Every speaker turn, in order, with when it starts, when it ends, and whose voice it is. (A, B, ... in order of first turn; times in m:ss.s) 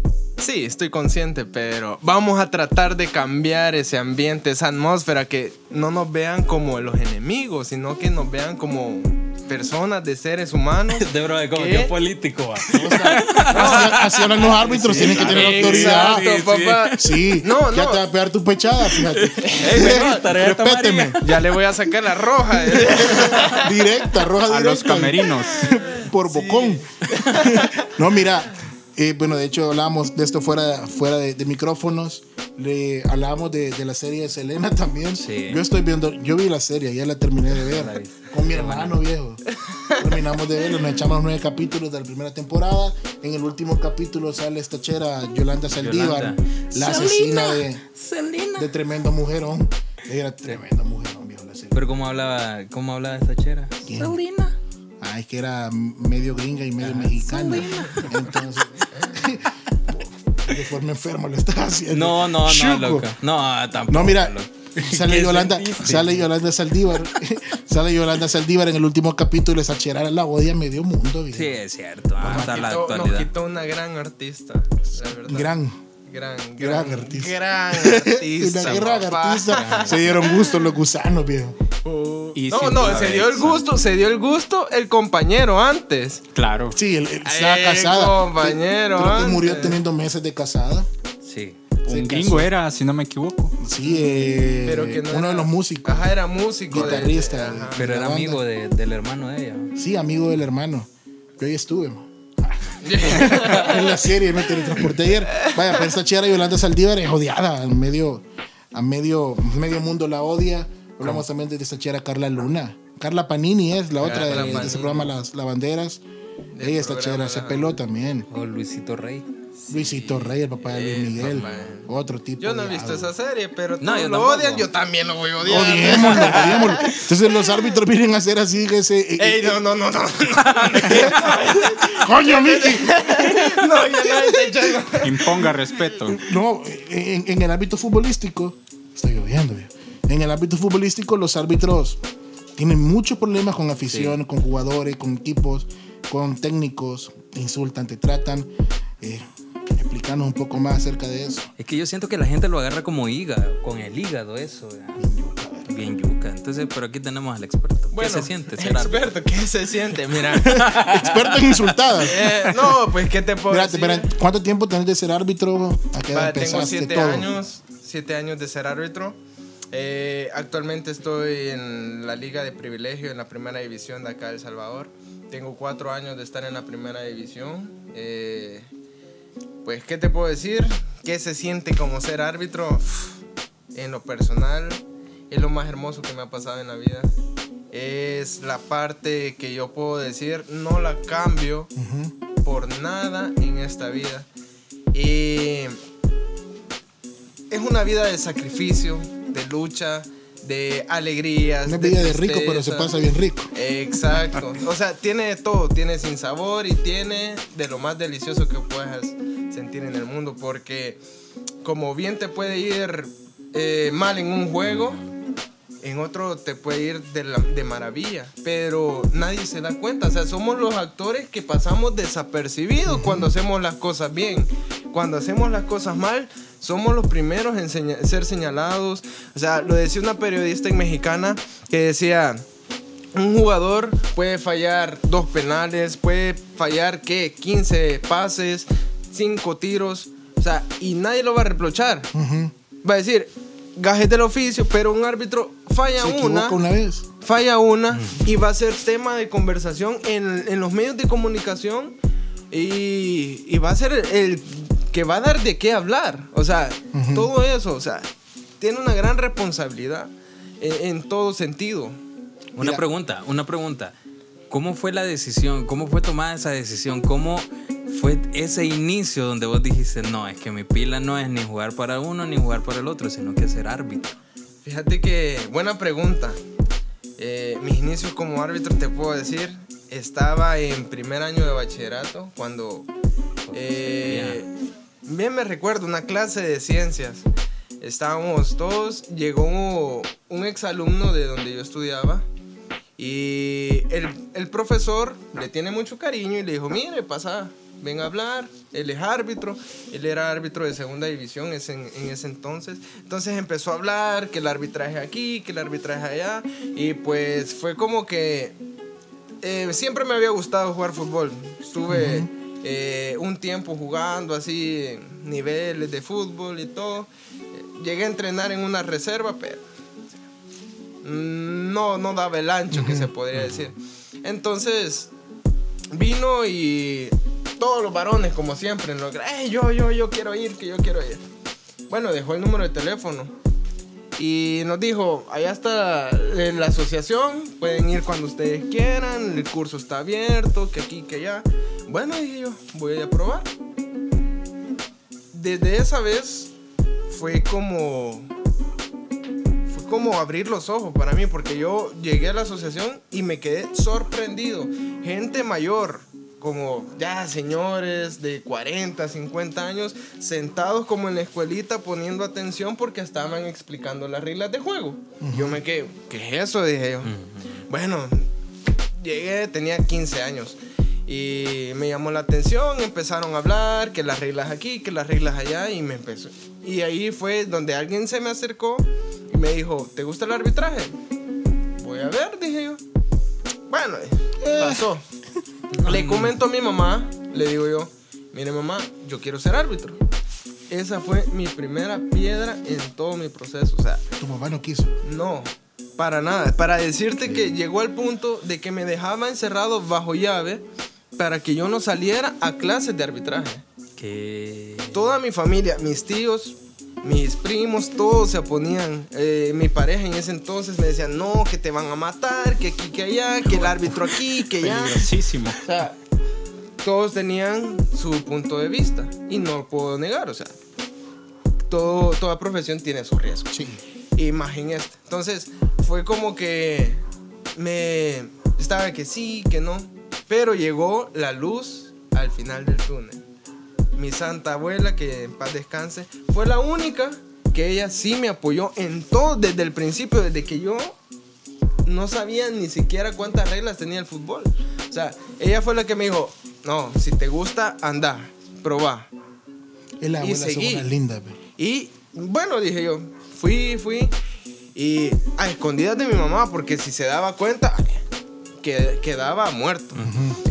0:00.4-0:11.9 A
0:10.9-0:17.1 B
0:12.6-0:18.0 A
0:12.7-0:16.3 C
0:17.0-0:21.2 C
0:19.1-0:21.4 B
0:19.4-0:20.0 A
0:21.2-0:23.8 A
0:22.9-0:26.8 C
0:23.0-0:23.3 B
0:24.5-0:25.7 D
0:25.5-0:27.9 A
0:27.4-0:47.8 C
0:35.2-0:35.6 B
0:37.7-0:39.0 B
0:39.8-0:40.1 A
0:45.7-0:48.7 B
0:48.6-0:51.8 C
0:51.7-0:54.6 B
0:53.8-0:54.2 C
0:55.0-1:03.1 C
0:56.8-0:58.2 B
0:57.8-0:58.0 A
1:01.9-1:06.3 B
1:03.9-1:11.6 C
1:11.3-1:13.3 B
1:12.2-1:12.7 C
1:12.2-1:15.5 A
1:15.0-1:15.8 C
1:16.1-1:20.7 A
1:16.6-1:21.6 C
1:19.5-1:20.1 D
1:21.8-1:26.2 A
1:22.4-1:23.6 D
1:22.8-1:23.6 B
1:26.4-1:26.8 D
1:26.8-1:30.9 C
1:27.2-1:29.8 A
1:31.2-1:31.6 B
1:31.8-1:32.5 C
1:31.9-1:33.6 D
1:33.6-1:36.1 C
1:33.8-1:37.8 A
1:36.7-1:38.4 C
1:37.8-1:39.8 B
1:39.8-1:40.9 C
1:41.4-1:56.0 C
1:42.8-1:44.6 A
1:45.3-1:45.8 A
1:54.0-1:55.1 A
1:54.3-1:54.7 B
1:56.5-1:57.8 A
1:56.6-1:58.3 C
1:58.3-1:59.3 B
1:59.6-2:07.6 A
1:59.7-2:03.1 C
2:01.2-2:01.7 B
2:03.8-2:04.7 B
2:05.4-2:09.6 C
2:09.2-2:15.5 A
2:10.8-2:13.5 C
2:15.0-2:16.2 D
2:16.0-2:22.0 C
2:22.6-2:31.5 C
2:23.9-2:24.2 B
2:31.6-2:35.1 B
2:35.0-2:35.7 C
2:35.6-2:39.2 B
2:37.9-2:40.6 A
2:40.4-2:42.6 C
2:40.5-2:41.7 B
2:42.0-2:44.1 A
2:43.5-2:47.3 C
2:46.1-2:49.2 A
2:49.7-2:58.7 A
2:59.6-3:03.2 A
3:03.7-3:07.1 A
3:07.7-3:11.7 A
3:11.8-3:12.2 C
3:12.4-3:14.3 A
3:14.9-3:15.8 A
3:17.5-3:22.9 A
3:21.6-3:23.5 C
3:23.5-3:31.0 A
3:31.6-3:35.0 A
3:34.6-3:35.1 B
3:35.8-3:52.4 A
3:42.9-3:43.3 C
3:53.1-4:02.1 A
4:02.1-4:02.5 C
4:02.8-4:06.6 A
4:06.0-4:07.1 C
4:07.2-4:12.0 A
4:07.9-4:08.2 B
4:12.5-4:18.1 A
4:16.9-4:17.3 C
4:18.6-4:22.0 A
4:22.6-4:23.9 B
4:22.6-4:22.8 C
4:24.5-4:34.2 B
4:34.6-4:36.4 A
4:37.2-4:42.9 A
4:43.5-4:44.4 B
4:43.5-4:44.5 A
4:45.0-4:47.3 A
4:47.8-4:52.3 A
4:53.0-5:08.6 A
5:09.4-5:19.6 A
5:11.9-5:12.3 C
5:21.0-5:25.1 A
5:22.7-5:23.1 C
5:23.4-5:23.7 B
5:25.9-5:31.2 A
5:31.9-5:33.3 A
5:34.2-5:43.5 A
5:45.3-5:46.5 A
5:47.1-5:48.3 A
5:49.7-6:07.2 A
6:05.2-6:05.6 C
6:07.0-6:07.6 B
6:07.7-6:08.3 A
6:09.0-6:21.0 A
6:21.8-6:22.8 A
6:23.7-6:25.0 A
6:24.4-6:24.9 C
6:25.7-6:26.3 B
6:25.9-6:30.0 A
6:30.7-6:34.0 A
6:34.2-6:35.0 C
6:35.0-6:40.6 A
6:41.2-6:43.6 A
6:44.0-6:45.1 B
6:44.9-6:56.0 A
6:54.6-6:55.6 D
6:54.7-6:54.9 C
6:56.8-7:00.6 A
7:01.7-7:03.6 A
7:03.5-7:03.8 C
7:04.2-7:07.0 A
7:07.6-7:13.2 A
7:14.0-7:21.0 A
7:21.8-7:29.1 A
7:30.0-7:31.4 C
7:30.2-7:30.9 A
7:31.6-7:34.1 A
7:34.8-7:38.0 A
7:38.6-7:40.1 A
7:40.0-7:40.4 C